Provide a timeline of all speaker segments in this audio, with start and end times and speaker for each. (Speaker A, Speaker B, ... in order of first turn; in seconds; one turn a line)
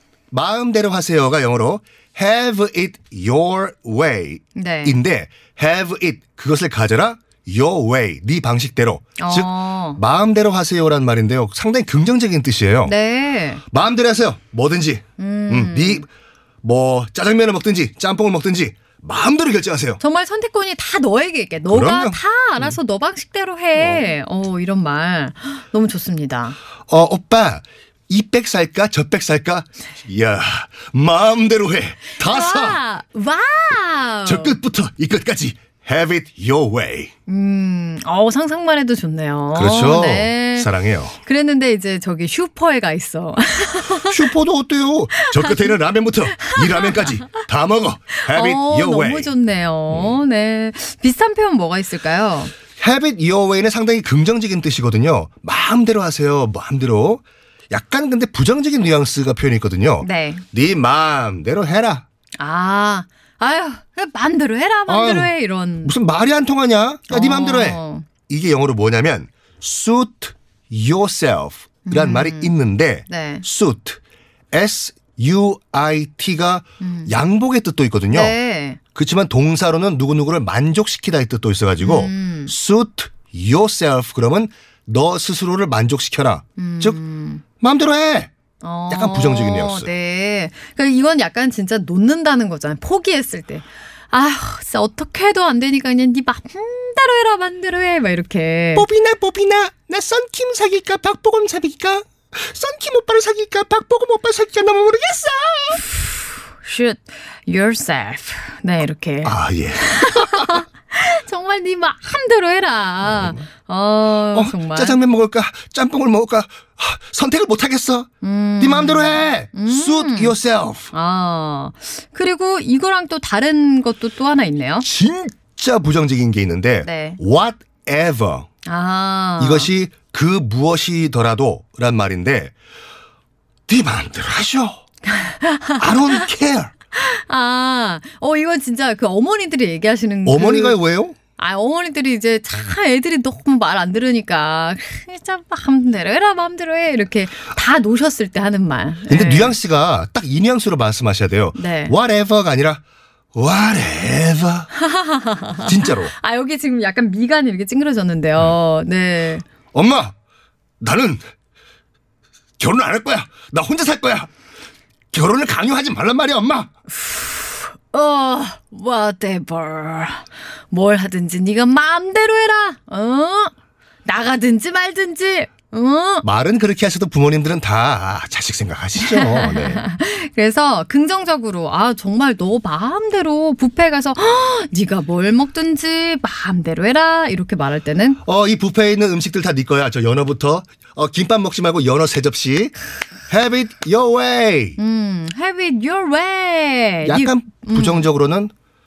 Speaker A: 0.3-12.9
Speaker B: 4.5-5.0
Speaker B: 9.2-10.0
Speaker B: 12.8-13.6
Speaker A: 13.7-16.1
Speaker B: 15.2-16.1
Speaker A: 16.6-20.0
Speaker B: 20.0-26.6
Speaker A: 21.7-22.8
Speaker A: 23.8-24.1
Speaker A: 26.9-32.8
Speaker B: 32.2-34.5
Speaker A: 34.2-37.1
Speaker B: 37.3-40.7
Speaker A: 39.5-41.2
Speaker B: 41.2-44.3
Speaker A: 44.0-49.3
Speaker B: 45.2-45.8
Speaker B: 46.3-47.3
Speaker B: 48.2-52.5
Speaker A: 49.9-50.2
Speaker A: 52.8-62.0
Speaker B: 60.0-60.4
Speaker B: 62.4-65.9
Speaker A: 64.9-65.3
Speaker A: 65.8-74.0
Speaker B: 67.1-68.1
Speaker B: 71.8-72.5
Speaker B: 73.1-73.4
Speaker A: 74.5-78.3
Speaker B: 76.8-77.1
Speaker B: 78.1-78.8
Speaker A: 78.9-87.0
Speaker B: 81.8-82.5
Speaker B: 86.6-87.4
Speaker A: 87.6-88.3
Speaker B: 88.6-98.8
Speaker A: 88.9-89.9
Speaker A: 98.8-105.8
Speaker B: 106.6-115.0
Speaker A: 109.2-110.6
Speaker A: 114.3-120.9
Speaker B: 118.2-120.4
Speaker B: 120.9-124.8
Speaker A: 124.8-128.5
Speaker B: 126.8-127.2
Speaker B: 128.7-129.7
Speaker A: 129.4-132.5
Speaker A: 133.7-134.8
Speaker B: 135.1-136.3
Speaker A: 135.8-136.7
Speaker B: 136.9-140.8
Speaker A: 140.3-141.2
Speaker B: 141.4-149.6
Speaker A: 149.1-152.8
Speaker B: 151.6-151.9
Speaker A: 153.3-154.7
Speaker B: 154.8-159.4
Speaker A: 155.6-156.1
Speaker A: 159.7-160.1
Speaker A: 160.8-161.2
Speaker A: 162.6-164.3
Speaker A: 165.1-166.7
Speaker B: 167.0-173.5
Speaker B: 174.1-176.2
Speaker A: 176.2-179.8
Speaker B: 179.0-188.2
Speaker A: 188.2-192.7
Speaker A: 193.3-194.8
Speaker B: 194.8-198.1
Speaker A: 197.0-198.5